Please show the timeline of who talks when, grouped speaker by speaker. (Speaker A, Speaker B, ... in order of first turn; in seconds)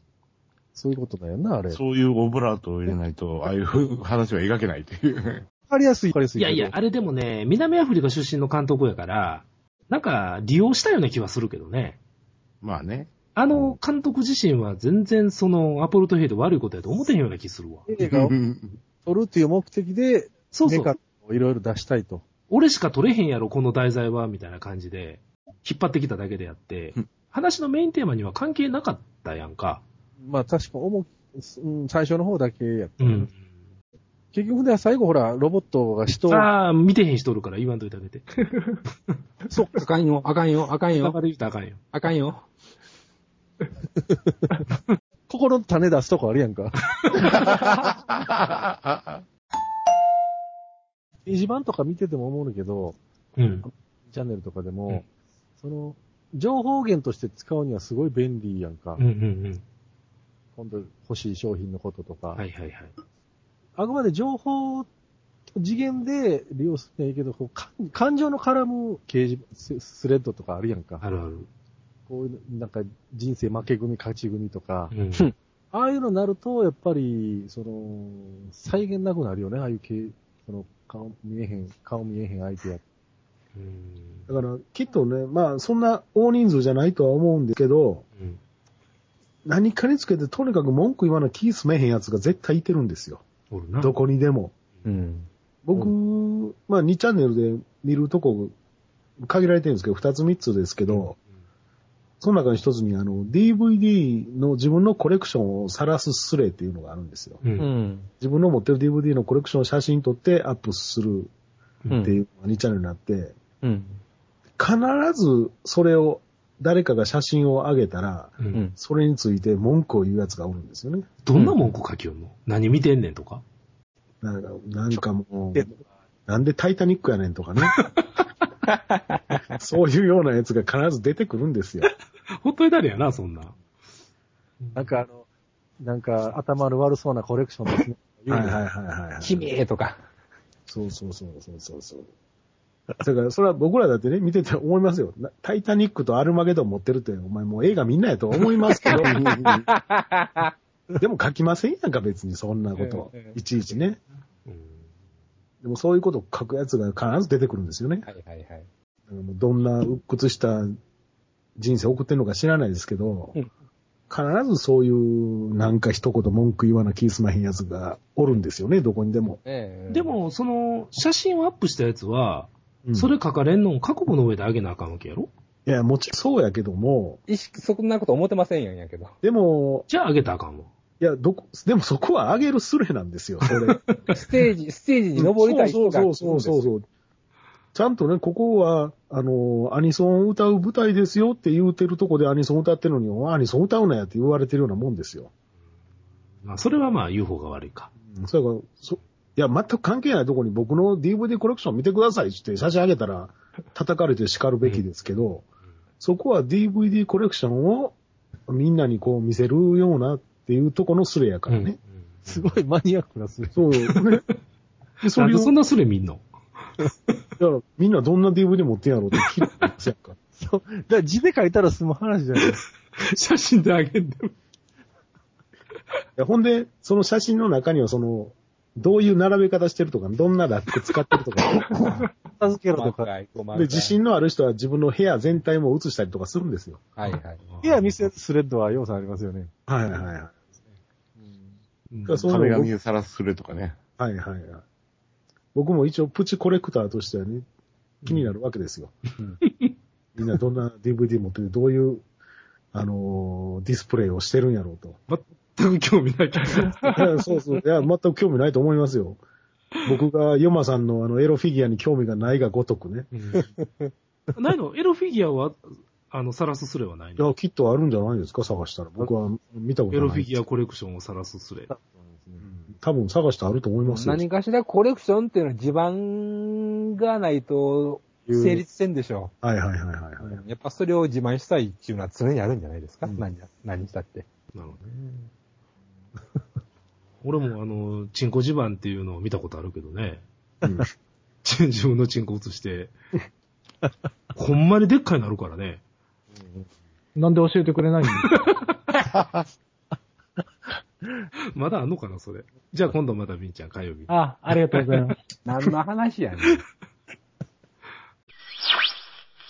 Speaker A: 0.8-1.8, 5.6-6.8, 17.9-18.3, 19.0-22.2, 30.2-33.3, 34.3-36.5, 39.5-39.8, 44.0-44.4, 45.3-46.8, 51.3-53.0, 53.6-55.0, 55.6-59.0, 60.6-62.4, 63.8-64.9, 65.6-71.0, 72.1-74.9, 75.7-82.8, 124.9-125.7, 134.8-135.2, 135.8-138.6, 212.2-213.6, 220.4-222.6, 232.3-233.1, 237.6-239.5, 241.2-241.5, 271.7-272.5, 278.2-278.6
Speaker B: 1.7-5.5, 12.6-13.8, 18.0-18.8, 148.9-149.7, 242.2-243.8
Speaker C: 6.4-12.0, 13.3-17.9, 20.5-20.9, 22.5-29.8, 33.0-33.4, 36.3-38.5, 41.0-41.8, 46.9-47.6, 53.4-53.7, 59.0-59.6, 62.4-62.9, 71.0-71.5, 74.9-75.3, 83.5-84.4, 93.5-94.0, 100.9-101.1, 107.4-107.7, 121.2-123.4, 127.7-128.2, 132.4-133.6, 134.6-135.0, 154.5-154.9, 169.9-175.3, 179.9-180.7, 183.5-184.2, 196.4-197.9, 204.6-204.9, 211.5-212.6, 213.8-214.4, 215.2-216.3, 219.2-219.6, 222.4-224.3, 237.0-238.1, 241.9-242.3, 248.0-248.3, 249.4-249.7, 255.1-257.0, 263.1-263.5, 264.4-267.4, 269.9-271.7, 284.5-285.3, 287.2-290.2, 291.4-292.9, 294.4-295.8, 298.2-298.7, 301.5-304.1
Speaker D: 39.8-41.2, 41.9-42.4, 94.8-95.9, 107.6-108.1, 111.9-112.2, 113.6-114.0, 128.7-129.2, 139.2-140.0, 148.8-150.5, 152.8-153.4, 158.1-158.7, 169.4-170.2, 177.3-179.2, 184.1-186.7, 232.8-234.0, 237.0-237.6, 273.9-279.3, 280.2-284.3, 305.5-306.6
Speaker E: 84.3-88.0, 89.5-93.2, 93.8-94.5, 95.7-98.5, 99.2-101.2, 102.2-107.4, 108.2-111.3, 112.0-113.4, 114.6-121.1, 124.2-125.7, 126.3-127.8, 129.5-131.9, 138.3-139.5, 140.7-142.1, 143.0-149.2, 151.0-154.0, 155.6-158.1, 159.1-160.7, 161.6-163.3, 164.1-169.4, 172.8-173.1, 175.7-177.2, 179.2-179.9, 181.0-183.8, 185.2-186.8, 187.7-195.3, 198.1-205.4, 206.0-208.0, 208.5-211.8, 213.6-214.2, 215.0-215.5, 217.4-220.2, 226.2-231.7, 233.5-236.8, 239.7-240.4, 242.1-242.7, 244.0-244.6, 245.6-247.4, 248.1-248.9, 250.2-252.0, 252.7-255.0, 256.9-259.2, 259.9-263.1, 267.2-270.4, 272.4-274.2, 279.4-280.4
Speaker F: 297.2-298.5, 304.1-305.2